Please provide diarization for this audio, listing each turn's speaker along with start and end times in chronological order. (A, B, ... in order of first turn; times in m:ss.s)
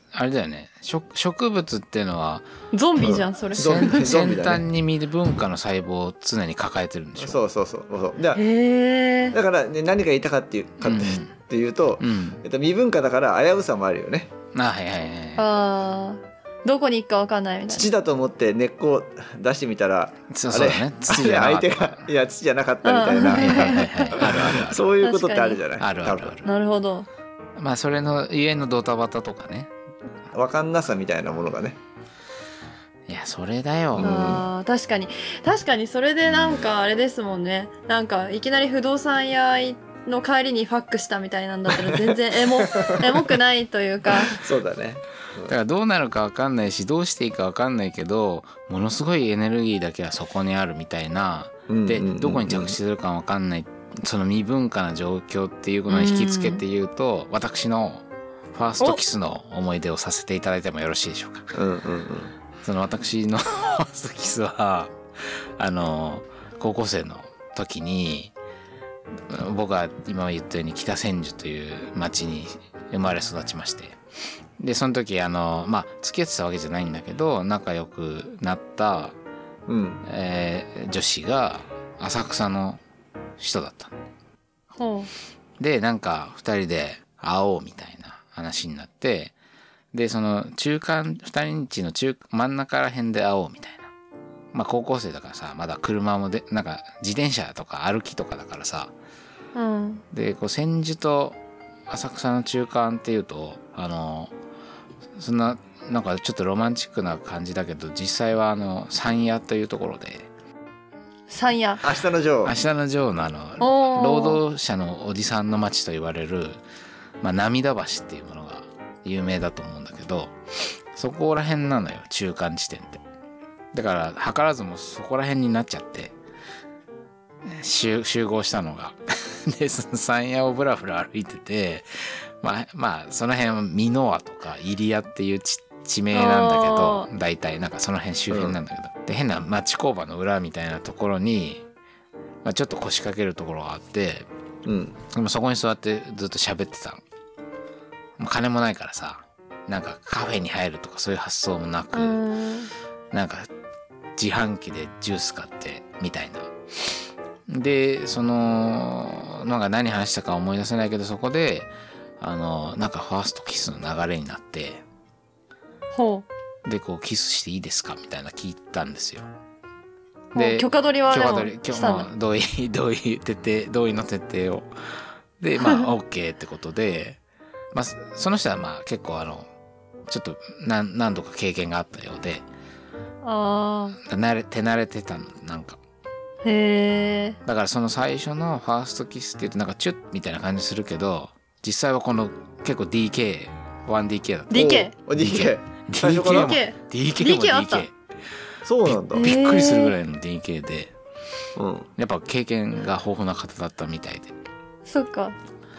0:00.1-0:02.5 A
0:02.7-0:04.0 B
0:03.0-0:04.6 C
0:03.5-0:07.4 A
0:07.2-0:08.4 C
0:08.3-0:09.4 B
0:09.3-0:14.3 C
0:10.8-0:11.3 A
0:12.0-0:12.4 A
0:14.5-0:15.5 A
0:15.4-0:17.9 B
0:17.7-0:26.4 C
0:20.3-0:22.1 A
0:22.8-0:24.4 B
0:23.2-0:24.9 A
0:25.0-0:25.6 B
0:25.8-0:26.5 A
0:26.4-0:27.1 B
0:27.6-0:29.7 A
0:30.3-0:31.8 C
0:33.1-0:34.4 A
0:34.0-0:34.5 C
0:34.0-0:44.4 B
0:36.3-0:36.7 A
0:41.7-0:43.3 C
0:44.2-0:45.6 C
0:45.5-1:01.5 A
0:51.7-0:52.8 C
0:55.9-0:56.6 B
1:01.5-1:02.3 C
1:02.6-1:04.9 A
1:05.6-1:08.3 A
1:09.3-1:14.0 A
1:14.6-1:19.2 A
1:19.7-1:20.0 C
1:20.1-1:22.8 A
1:23.4-1:23.9 A
1:24.8-1:25.1 B
1:25.6-1:29.4 A
1:29.9-1:33.9 A
1:34.5-1:38.9 A
1:39.5-1:40.0 B
1:40.1-1:41.4 A
1:41.9-1:44.3 A
1:45.2-1:50.3 A
1:51.3-1:51.8 B
1:51.8-1:52.6 C
1:52.4-1:56.6 A
1:53.6-1:54.4 B
1:57.2-2:00.3 A
2:01.0-2:03.0 A
2:03.7-2:06.2 A
2:07.5-2:21.6 A
2:16.1-2:17.1 B
2:18.3-2:18.6 C
2:22.4-2:24.3 A
2:24.6-2:25.0 C
2:25.1-2:27.0 A
2:28.2-2:32.2 A
2:31.9-2:32.7 B
2:33.1-2:33.5 A
2:34.2-2:36.5 A
2:37.5-2:44.8 A
2:45.9-2:46.2 B
2:46.6-2:49.3 A
2:50.3-2:54.7 A
2:50.3-2:52.1 B
2:55.4-2:57.2 A
2:55.6-2:55.9 B
2:57.7-2:59.5 A
3:00.1-3:02.4 A
3:03.2-3:04.0 B
3:04.1-3:05.8 A
3:06.4-3:07.4 B
3:07.4-3:17.9 A
3:14.5-3:14.9 B
3:14.5-3:16.6 C
3:16.3-3:17.9 B
3:18.6-3:19.3 C
3:18.8-3:20.9 A
3:19.1-3:20.0 B
3:21.6-3:21.9 C
3:22.0-3:24.3 A
3:24.9-3:25.4 B